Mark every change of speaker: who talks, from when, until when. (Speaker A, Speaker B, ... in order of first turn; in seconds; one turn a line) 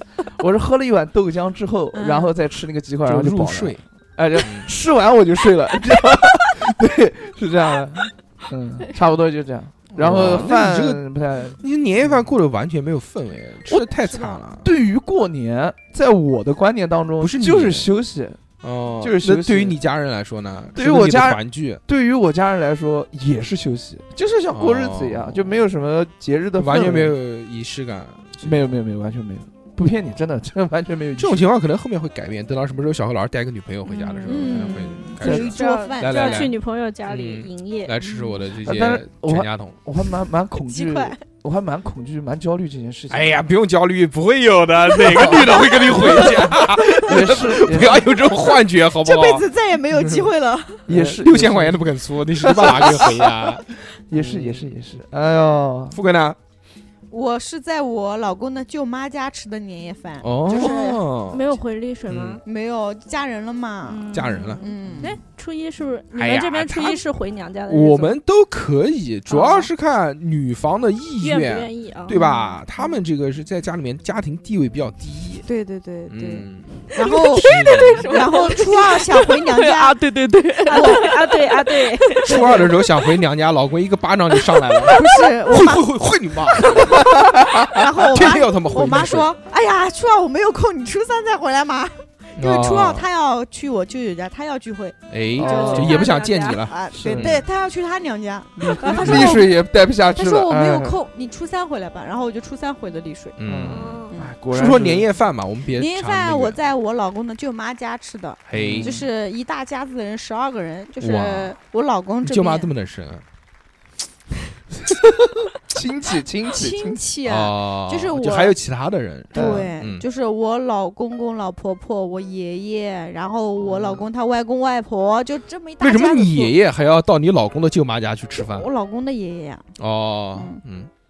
Speaker A: 0.4-12.2
Speaker B: 1.9-2.3
Speaker C: 3.0-3.8
Speaker C: 4.4-4.7
Speaker C: 10.0-11.0
Speaker C: 11.6-14.7
Speaker A: 14.6-18.4
Speaker C: 17.2-17.9
Speaker C: 18.6-21.8
Speaker A: 19.0-19.8
Speaker A: 20.8-27.1
Speaker C: 24.5-25.6
Speaker C: 26.6-28.7
Speaker A: 28.4-31.4
Speaker C: 31.2-36.6
Speaker D: 33.9-38.0
Speaker B: 34.3-36.5
Speaker A: 35.2-35.5
Speaker C: 37.1-39.8
Speaker A: 38.6-43.4
Speaker D: 40.7-41.1
Speaker C: 43.1-50.3
Speaker A: 45.0-48.1
Speaker B: 49.0-50.9
Speaker C: 50.9-54.8
Speaker A: 50.9-53.3
Speaker A: 54.1-56.0
Speaker C: 55.9-56.4
Speaker B: 57.1-61.0
Speaker C: 60.2-61.5
Speaker D: 60.5-62.4
Speaker C: 62.1-62.4
Speaker B: 62.5-65.2
Speaker D: 63.9-68.2
Speaker C: 64.1-64.6
Speaker C: 66.1-67.0
Speaker C: 67.7-75.5
Speaker B: 69.3-69.7
Speaker D: 71.2-72.2
Speaker B: 72.1-72.6
Speaker B: 75.5-77.5
Speaker C: 76.1-76.8
Speaker E: 77.0-82.4
Speaker C: 77.3-78.1
Speaker B: 78.0-80.0
Speaker B: 80.7-81.1
Speaker D: 80.7-82.4
Speaker B: 82.2-82.7
Speaker C: 82.2-87.1
Speaker B: 84.9-85.9
Speaker B: 86.7-87.0
Speaker A: 87.3-87.7
Speaker B: 87.7-99.5
Speaker C: 88.0-89.3
Speaker C: 92.4-93.1
Speaker C: 95.1-97.4
Speaker A: 95.4-96.0
Speaker D: 95.4-96.7
Speaker A: 96.9-97.4
Speaker A: 98.6-101.0
Speaker C: 99.0-99.4
Speaker B: 100.2-103.4
Speaker C: 103.4-106.6
Speaker A: 103.5-105.1
Speaker D: 103.7-104.2
Speaker B: 105.7-112.7
Speaker C: 108.5-109.0
Speaker A: 108.5-109.0
Speaker C: 111.0-111.6
Speaker C: 112.2-113.2
Speaker A: 115.7-117.0
Speaker B: 116.5-118.6
Speaker C: 117.2-120.0
Speaker B: 119.3-126.5
Speaker A: 119.3-119.7
Speaker A: 123.7-124.0
Speaker C: 125.8-128.7
Speaker B: 128.3-129.7
Speaker C: 129.8-130.9
Speaker B: 130.3-130.6